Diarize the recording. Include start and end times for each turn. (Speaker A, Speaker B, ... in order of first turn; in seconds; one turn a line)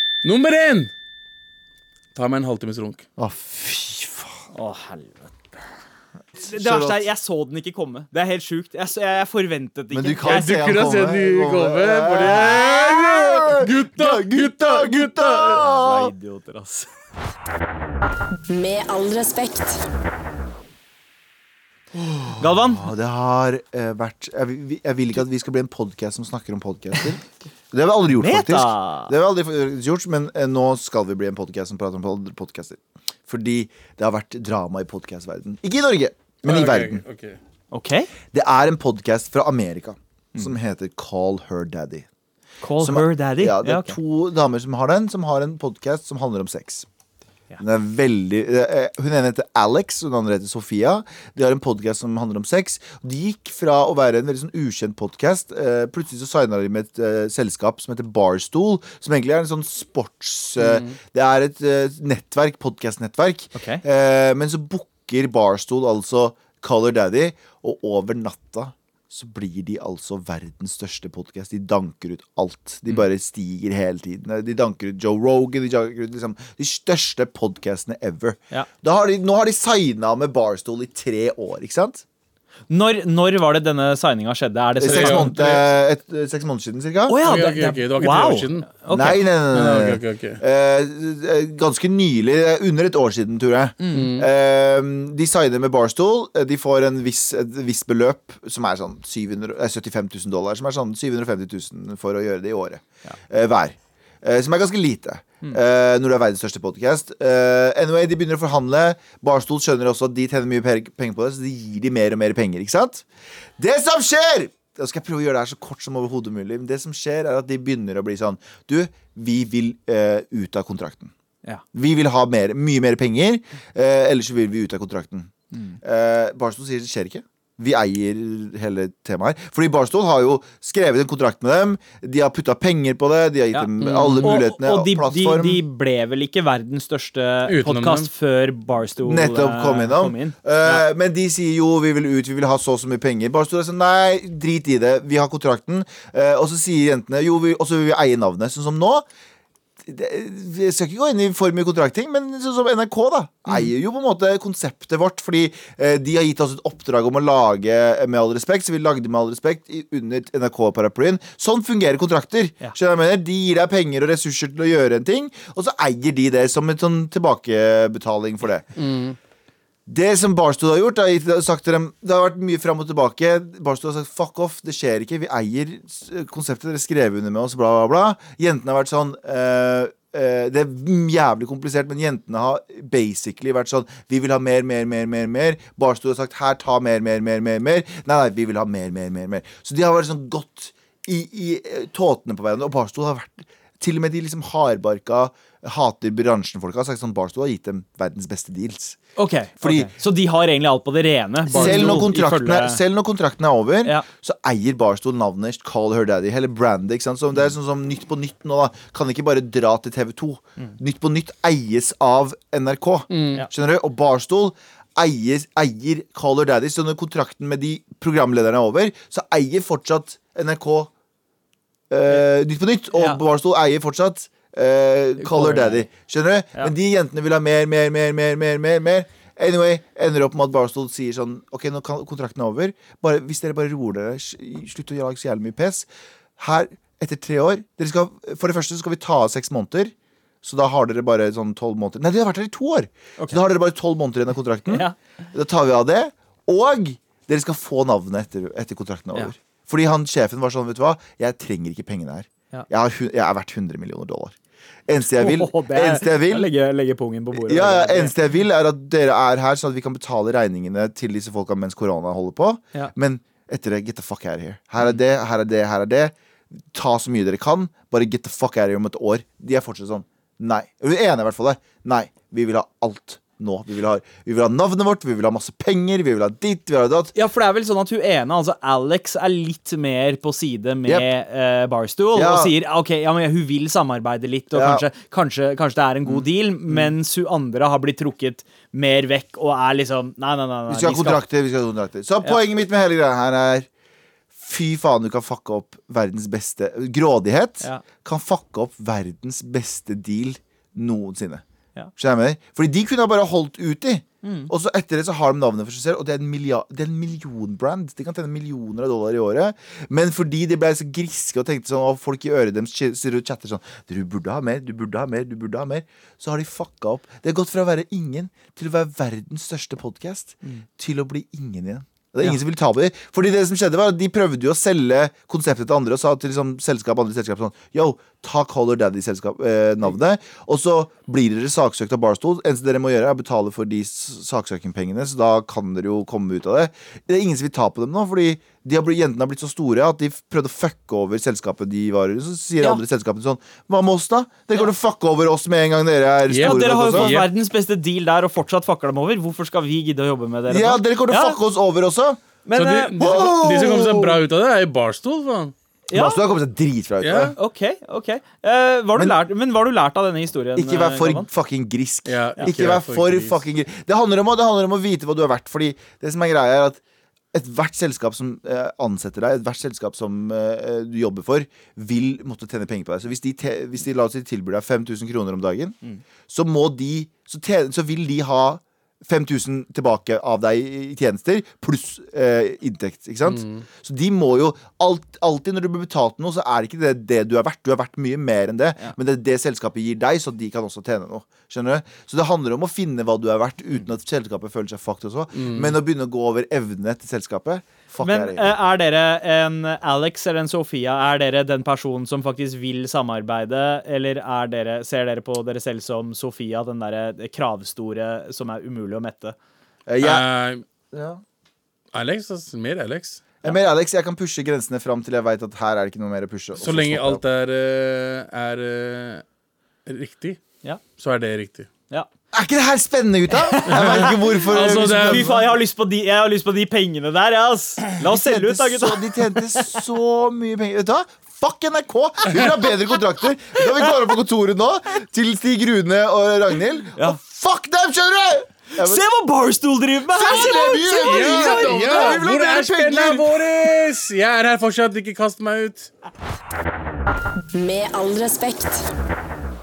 Speaker A: 0.2-0.9
Speaker A: 2.1-3.0
Speaker B: 3.2-4.4
Speaker C: 4.5-5.3
Speaker B: 6.4-7.0
Speaker C: 6.4-10.6
Speaker B: 9.9-16.1
Speaker A: 10.2-15.6
Speaker C: 15.5-16.9
Speaker D: 18.5-19.9
Speaker B: 22.2-37.0
Speaker C: 22.3-22.9
Speaker C: 28.1-29.1
Speaker A: 36.4-37.4
Speaker C: 37.7-38.1
Speaker B: 38.3-42.0
Speaker C: 42.6-44.0
Speaker B: 42.8-46.9
Speaker B: 47.6-82.0
Speaker C: 63.5-63.8
Speaker C: 82.7-85.3
Speaker A: 84.8-85.7
Speaker B: 84.8-87.2
Speaker C: 87.1-89.2
Speaker A: 87.2-88.7
Speaker B: 88.9-113.0
Speaker A: 89.5-90.4
Speaker A: 93.9-94.3
Speaker B: 113.6-121.1
Speaker B: 121.7-135.6
Speaker C: 133.5-140.8
Speaker A: 133.8-134.3
Speaker A: 137.5-138.1
Speaker B: 139.0-149.1
Speaker B: 149.8-168.7
Speaker A: 168.8-169.2
Speaker B: 169.9-199.0
Speaker C: 199.2-202.8
Speaker B: 199.6-199.9
Speaker B: 201.5-220.9
Speaker A: 213.1-213.4
Speaker B: 221.9-235.9
Speaker C: 222.9-223.2
Speaker C: 225.2-225.9
Speaker B: 236.4-254.3
Speaker C: 244.7-244.9
Speaker B: 254.9-256.5
Speaker C: 255.1-258.1
Speaker B: 257.4-266.1
Speaker B: 266.7-277.1
Speaker C: 277.1-291.2
Speaker B: 282.1-282.5
Speaker B: 284.5-284.9
Speaker B: 290.7-293.7
Speaker B: 294.4-301.4
Speaker B: 301.9-347.2
Speaker C: 304.2-304.5
Speaker A: 346.3-347.3
Speaker C: 346.4-351.4
Speaker B: 350.5-352.2
Speaker C: 352.4-354.1
Speaker A: 352.6-355.5
Speaker B: 353.0-353.6
Speaker C: 355.9-356.2
Speaker B: 355.9-357.4
Speaker A: 357.0-357.4
Speaker C: 357.4-361.3
Speaker B: 360.5-366.8
Speaker A: 362.1-363.4
Speaker B: 367.3-375.8
Speaker B: 376.3-398.5
Speaker A: 395.3-395.8
Speaker C: 398.0-409.3
Speaker B: 409.9-410.2
Speaker A: 410.0-410.6
Speaker B: 410.9-411.2
Speaker A: 411.9-413.2
Speaker B: 413.4-417.2
Speaker A: 416.6-419.2
Speaker A: 419.9-420.4
Speaker A: 421.0-421.7
Speaker B: 422.3-425.4
Speaker C: 423.5-424.3
Speaker A: 423.7-425.3
Speaker C: 424.9-429.8
Speaker B: 428.0-439.0
Speaker C: 438.8-442.2
Speaker B: 440.1-443.8
Speaker A: 441.0-445.9
Speaker D: 447.5-448.9